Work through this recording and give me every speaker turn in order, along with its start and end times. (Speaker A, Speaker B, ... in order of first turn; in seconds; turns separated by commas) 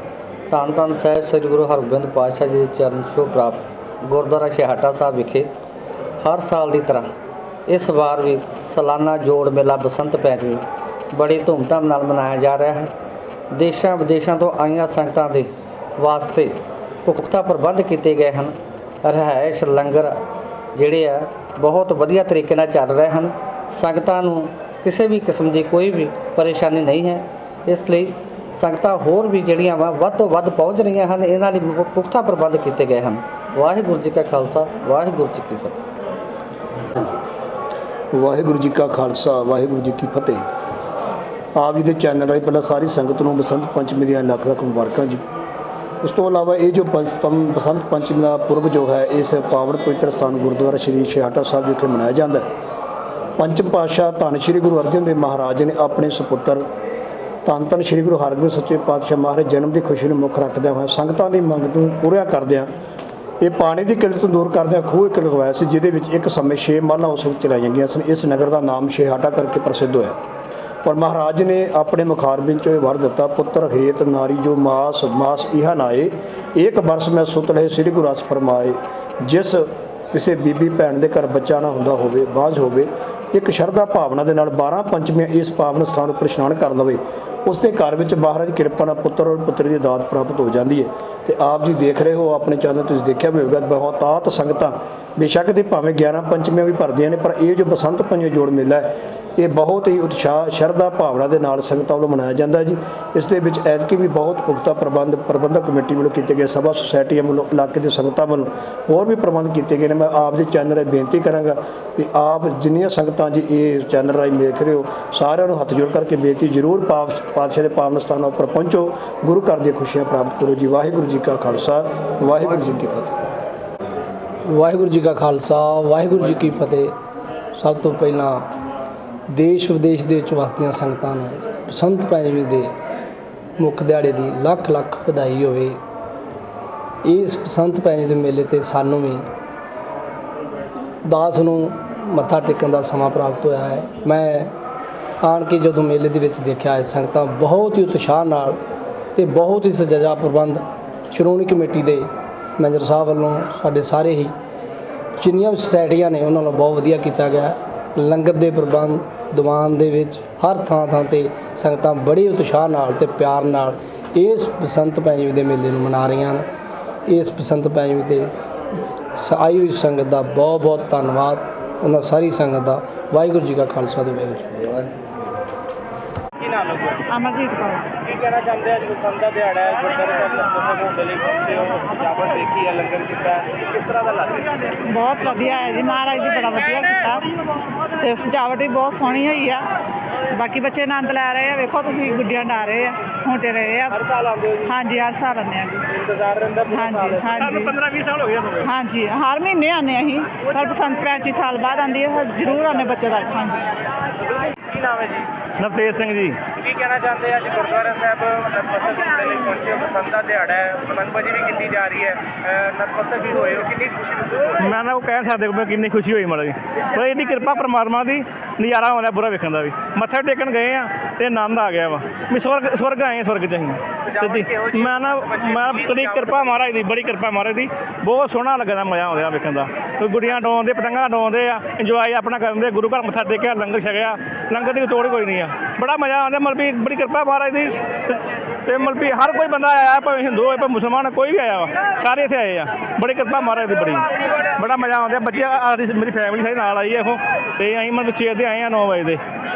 Speaker A: 0.5-5.5, Speaker A: 6.2-7.1, Speaker A: 7.7-12.9, Speaker A: 13.5-20.2, Speaker A: 20.8-35.9, Speaker B: 38.1-40.4, Speaker B: 41.6-45.2, Speaker B: 46.0-52.5, Speaker B: 53.4-56.7, Speaker B: 57.5-62.7, Speaker B: 63.4-70.2, Speaker B: 70.8-123.2, Speaker C: 124.5-126.9, Speaker C: 127.5-128.5, Speaker C: 129.3-132.7, Speaker C: 133.6-135.8, Speaker C: 137.0-139.2, Speaker C: 141.1-144.5, Speaker C: 145.2-148.6, Speaker C: 149.2-154.3, Speaker C: 155.2-166.4, Speaker C: 167.1-168.3, Speaker C: 169.2-174.8, Speaker D: 176.4-177.0, Speaker E: 177.1-177.9, Speaker D: 178.0-184.6, Speaker E: 184.9-187.3, Speaker E: 188.0-189.7, Speaker E: 190.3-194.0, Speaker D: 194.0-194.7, Speaker E: 194.7-195.9, Speaker D: 196.0-197.2, Speaker E: 196.7-197.8, Speaker F: 197.3-198.7, Speaker E: 198.6-203.7, Speaker D: 204.5-205.3, Speaker F: 205.6-206.4, Speaker D: 206.6-214.6, Speaker F: 214.6-249.2, Speaker D: 224.1-226.5